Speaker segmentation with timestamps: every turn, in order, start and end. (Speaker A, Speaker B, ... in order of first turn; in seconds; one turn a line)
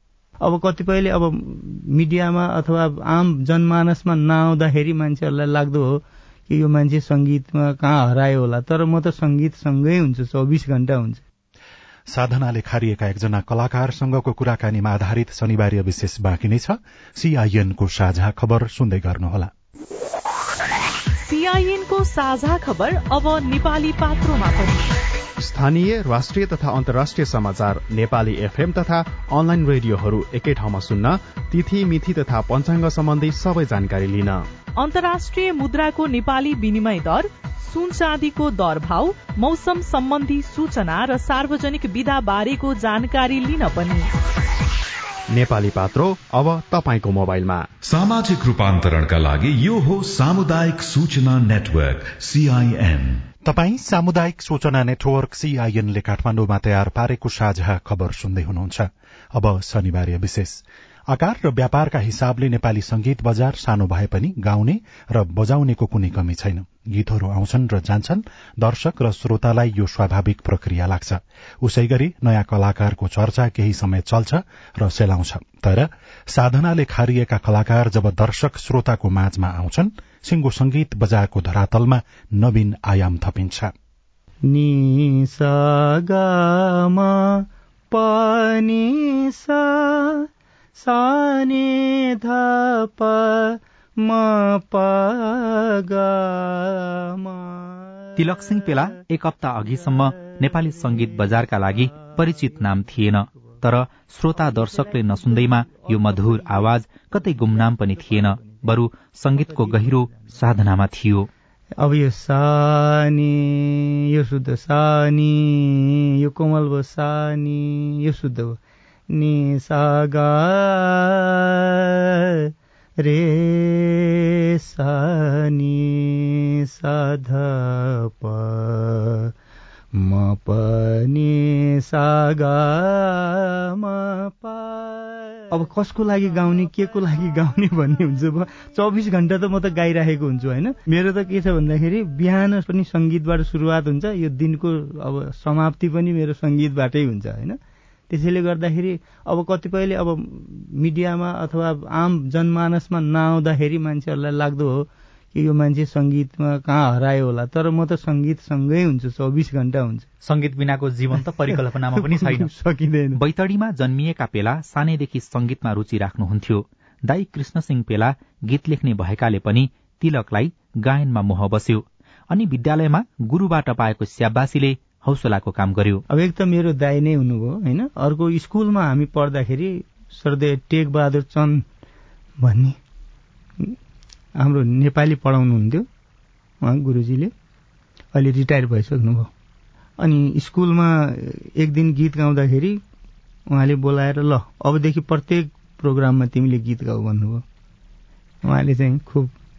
Speaker A: 0.4-11.2
Speaker B: 12.1-19.5
Speaker C: 21.2-24.9
Speaker D: 25.4-34.4
Speaker C: 34.8-44.1
Speaker D: 45.3-47.6
Speaker E: 47.9-53.2
Speaker B: 53.4-83.7
Speaker A: 84.5-98.1
Speaker F: 98.2-111.3
Speaker A: 104.6-106.5
Speaker A: 107.6-108.6
Speaker A: 109.4-110.3
Speaker A: 111.8-118.6
Speaker A: 119.1-121.6
Speaker A: 123.0-129.3
Speaker A: 130.0-147.6
Speaker A: 148.1-160.1
Speaker F: 160.2-162.5
Speaker A: 161.5-163.2
Speaker F: 163.1-176.0
Speaker A: 176.1-181.7
Speaker A: 182.4-182.8
Speaker A: 184.4-185.9
Speaker A: 186.6-187.3
Speaker A: 188.1-189.3
Speaker A: 190.0-192.8
Speaker A: 193.5-197.4
Speaker A: 198.4-199.3